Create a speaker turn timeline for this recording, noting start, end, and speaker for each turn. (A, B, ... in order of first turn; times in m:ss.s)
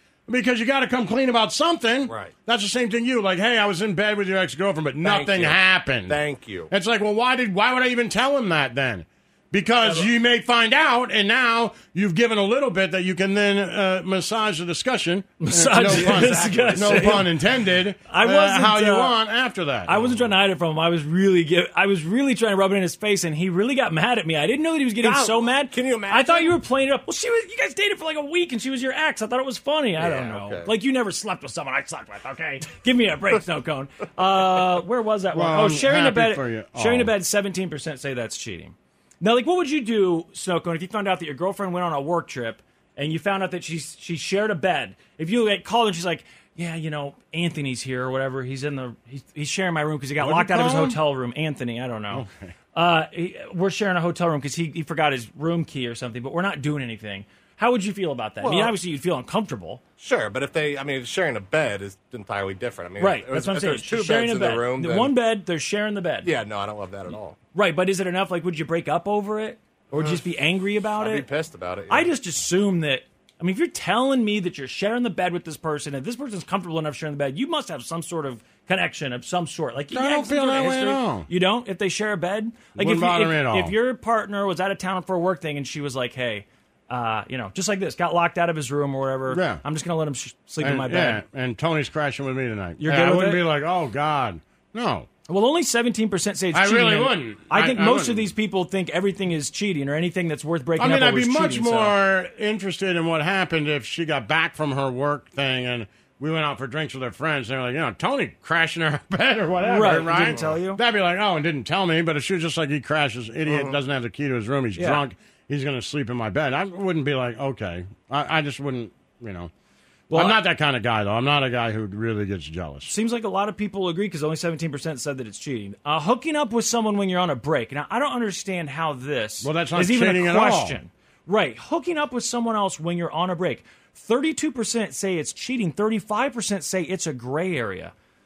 0:00.3-0:20.1 A
0:02.1-0:02.3 B
0:05.0-0:06.7 B
0:15.4-0:17.3 C
0:15.9-0:17.2 B
0:18.1-0:19.2 C
0:19.8-0:59.8 C
0:25.0-0:26.6 B
0:30.0-0:30.7 B
0:35.3-0:37.1 A
0:50.2-0:51.0 A
0:52.1-0:52.5 A
0:58.4-0:58.8 B
1:00.0-1:05.1 B
1:03.0-1:06.3 C
1:06.2-1:07.4 B
1:07.5-1:11.3 C
1:09.9-1:10.2 B
1:11.0-1:12.1 B
1:11.9-1:31.2 C
1:19.9-1:21.3 A
1:22.8-1:23.7 A
1:29.3-1:29.6 A
1:30.6-1:35.1 A
1:32.8-1:33.4 C
1:35.3-1:42.0 C
1:36.5-1:38.3 A
1:40.8-1:59.5 A
1:49.6-1:50.8 C
1:50.2-1:50.4 B
1:54.7-1:55.0 C
2:00.1-2:00.4 C
2:00.1-2:02.9 A
2:02.9-2:17.9 C
2:09.4-2:10.8 A